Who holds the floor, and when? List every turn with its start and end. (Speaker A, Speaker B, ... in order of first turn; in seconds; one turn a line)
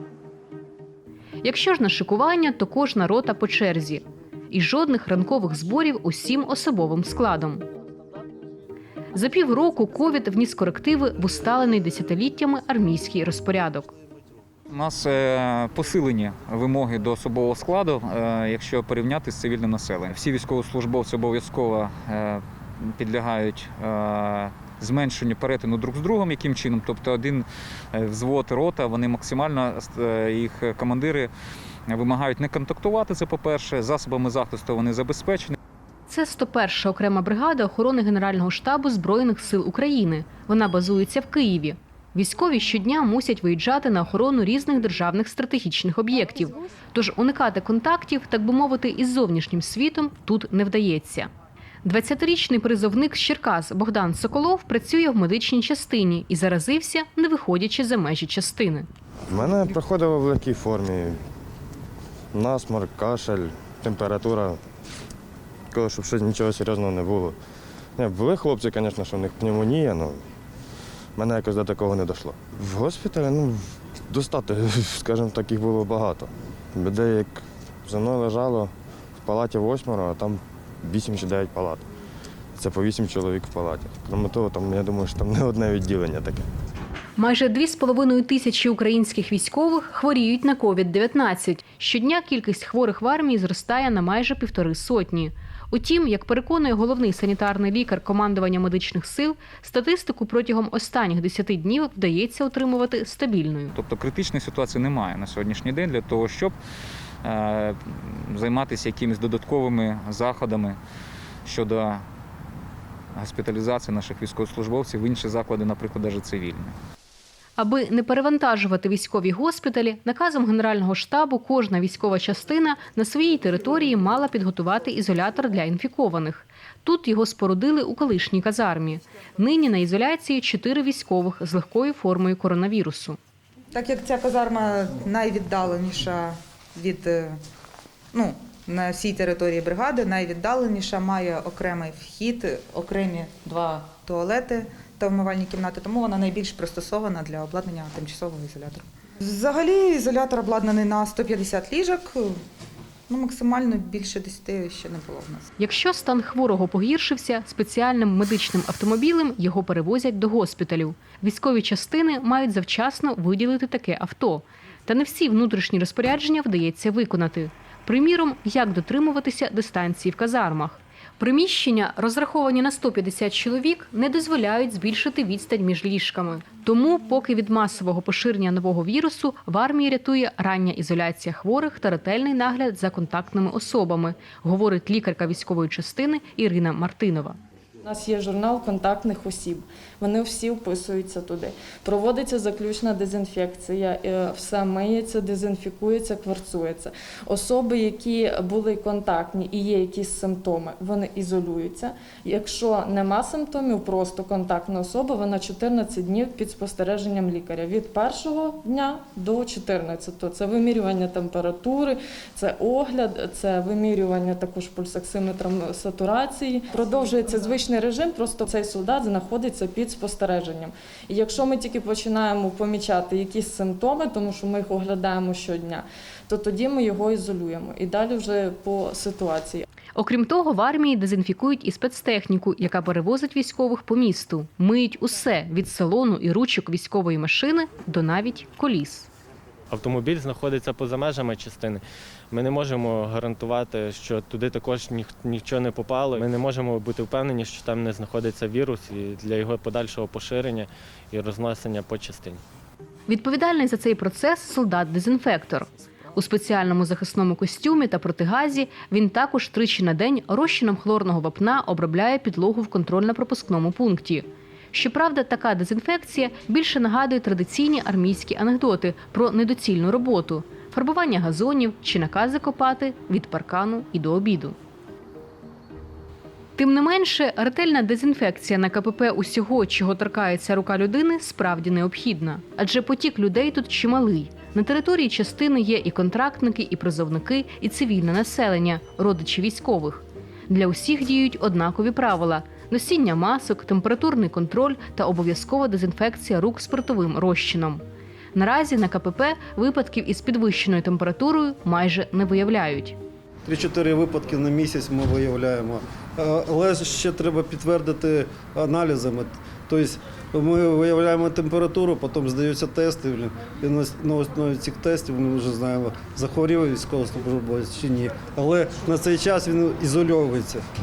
Speaker A: 1.4-7.6
Speaker A: 9.1-13.9
Speaker B: 14.7-31.3
Speaker B: 31.9-35.5
Speaker A: 36.1-51.3
Speaker A: 51.8-58.9
Speaker C: 59.3-61.2
Speaker C: 62.3-64.6
Speaker C: 65.7-67.4
Speaker C: 68.0-70.2
Speaker C: 71.2-81.9
Speaker C: 82.5-86.5
Speaker A: 87.2-103.7
Speaker B: 103.7-106.5
Speaker B: 107.2-110.8
Speaker B: 111.4-112.0
Speaker B: 113.2-116.8
Speaker A: 117.6-133.2
Speaker D: 133.7-137.4
Speaker D: 138.1-152.4
Speaker D: 153.1-155.5
Speaker A: 155.6-187.4
Speaker E: 187.8-229.6
Speaker A: 229.9-239.1
Speaker F: 239.7-252.4
Speaker A: 253.1-274.6
Speaker A: 276.6-297.8
Speaker A: 298.3-303.0
Speaker G: 303.4-320.6